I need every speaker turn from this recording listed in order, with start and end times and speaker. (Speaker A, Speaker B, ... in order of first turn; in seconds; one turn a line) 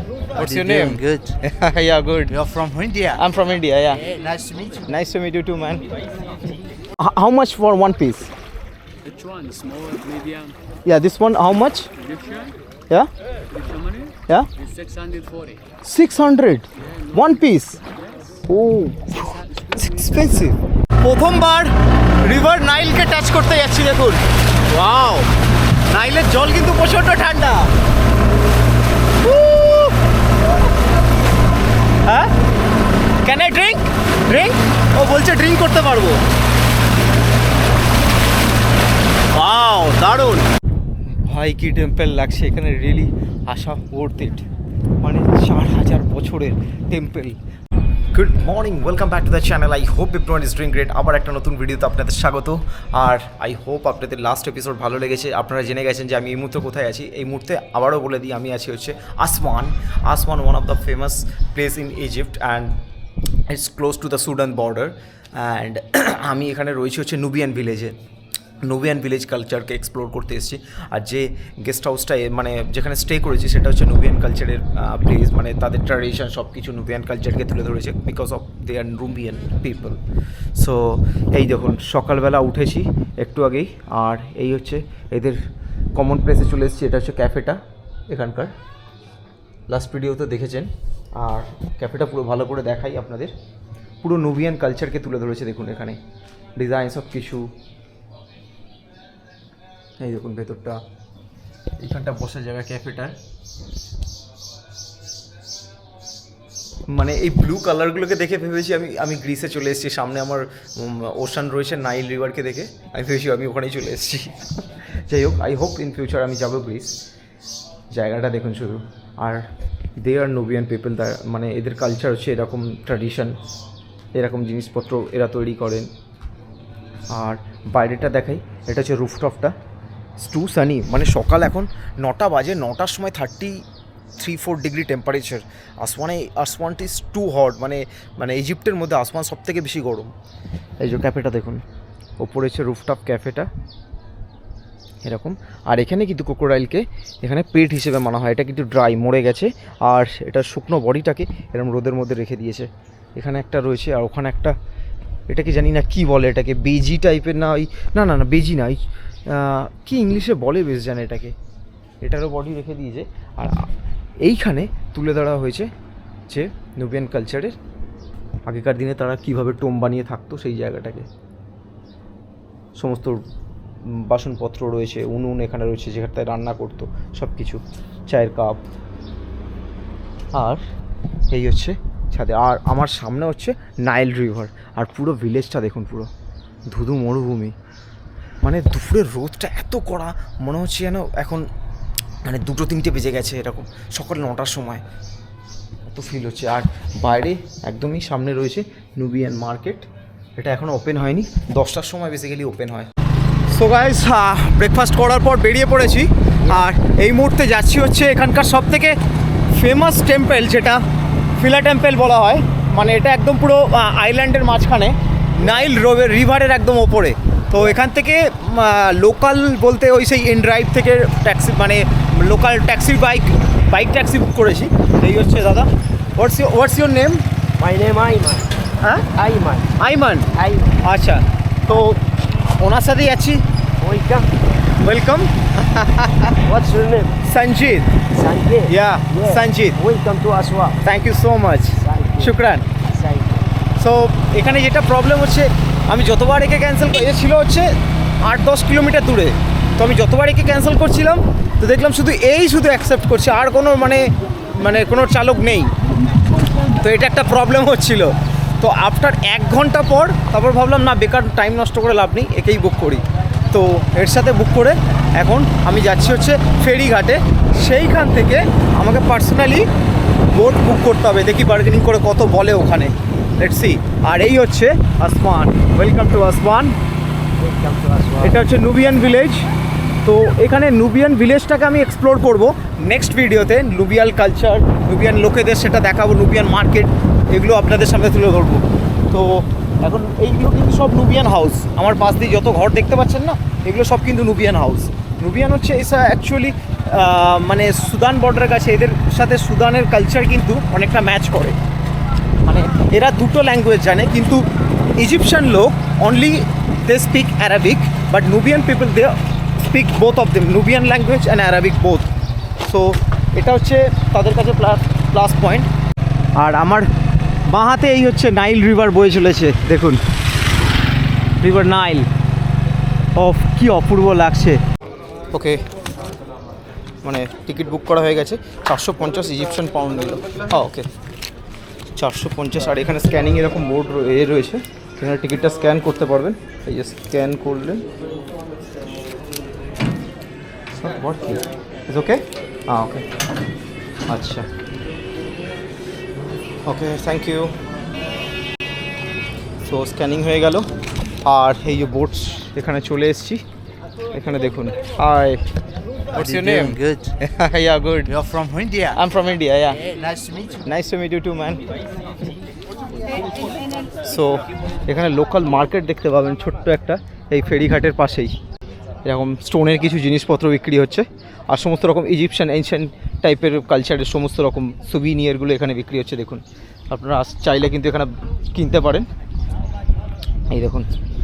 Speaker A: 0.3-1.4
Speaker B: 0.3-2.4
Speaker A: 2.3-3.2
Speaker B: 3.1-4.1
Speaker A: 4.1-4.9
Speaker B: 4.9-5.9
Speaker B: 7.0-8.3
Speaker C: 9.0-10.6
Speaker B: 10.9-11.9
Speaker C: 12.0-12.6
Speaker C: 13.5-15.7
Speaker B: 15.8-17.8
Speaker C: 16.8-18.5
Speaker B: 18.5-25.3
Speaker C: 19.1-20.6
Speaker B: 25.9-27.7
Speaker B: 29.2-30.0
Speaker B: 32.1-32.3
Speaker B: 33.2-36.2
Speaker B: 39.3-40.5
Speaker B: 41.0-44.5
Speaker B: 45.0-47.4
Speaker B: 48.1-62.8
Speaker B: 63.5-68.0
Speaker B: 68.6-80.0
Speaker B: 80.5-85.4
Speaker B: 85.9-88.5
Speaker B: 89.7-93.3
Speaker B: 94.0-96.0
Speaker B: 96.6-97.5
Speaker B: 100.0-100.8
Speaker B: 101.8-103.2
Speaker B: 106.9-117.0
Speaker B: 117.9-119.5
Speaker B: 120.0-123.4
Speaker B: 124.1-125.9
Speaker B: 127.1-129.6
Speaker B: 130.2-133.6
Speaker B: 134.2-140.1
Speaker B: 140.8-141.6
Speaker B: 142.2-143.5
Speaker B: 145.0-154.6
Speaker B: 155.3-161.3
Speaker B: 162.0-163.7
Speaker B: 164.2-165.7
Speaker B: 166.3-167.6
Speaker B: 168.5-171.1
Speaker B: 172.8-173.2
Speaker B: 173.8-178.6
Speaker B: 180.3-180.6
Speaker B: 181.3-186.1
Speaker B: 186.7-187.6
Speaker B: 188.4-191.5
Speaker B: 192.2-194.8
Speaker B: 195.9-202.9
Speaker B: 203.5-209.0
Speaker B: 209.5-210.8
Speaker B: 211.3-227.2
Speaker D: 227.6-228.5
Speaker B: 228.8-229.1
Speaker D: 229.1-229.7
Speaker B: 229.8-232.0
Speaker D: 230.3-230.8
Speaker B: 232.6-233.4
Speaker D: 233.8-234.3
Speaker B: 234.8-236.4
Speaker D: 236.4-237.2
Speaker B: 237.2-238.0
Speaker D: 238.1-240.8
Speaker B: 238.7-239.8
Speaker B: 240.8-242.7
Speaker D: 241.8-243.5
Speaker B: 243.8-255.7
Speaker B: 256.7-269.7
Speaker B: 270.3-276.8
Speaker D: 277.4-278.4
Speaker B: 278.2-279.5
Speaker B: 280.0-301.6
Speaker B: 302.4-304.5
Speaker B: 305.0-315.7
Speaker B: 316.4-316.9
Speaker B: 317.5-320.0
Speaker B: 321.4-322.1
Speaker B: 323.2-324.6
Speaker B: 325.3-325.6
Speaker B: 327.0-330.9
Speaker B: 332.0-337.9
Speaker B: 340.7-343.1
Speaker B: 344.1-344.5
Speaker B: 346.6-347.6
Speaker B: 349.6-350.7
Speaker B: 351.2-353.4
Speaker B: 354.1-355.4
Speaker B: 356.1-358.1
Speaker A: 356.1-357.2
Speaker A: 358.1-359.0
Speaker B: 358.9-359.9
Speaker A: 359.8-360.6
Speaker B: 360.6-361.6
Speaker B: 364.0-368.4
Speaker B: 369.0-379.1
Speaker B: 380.5-380.9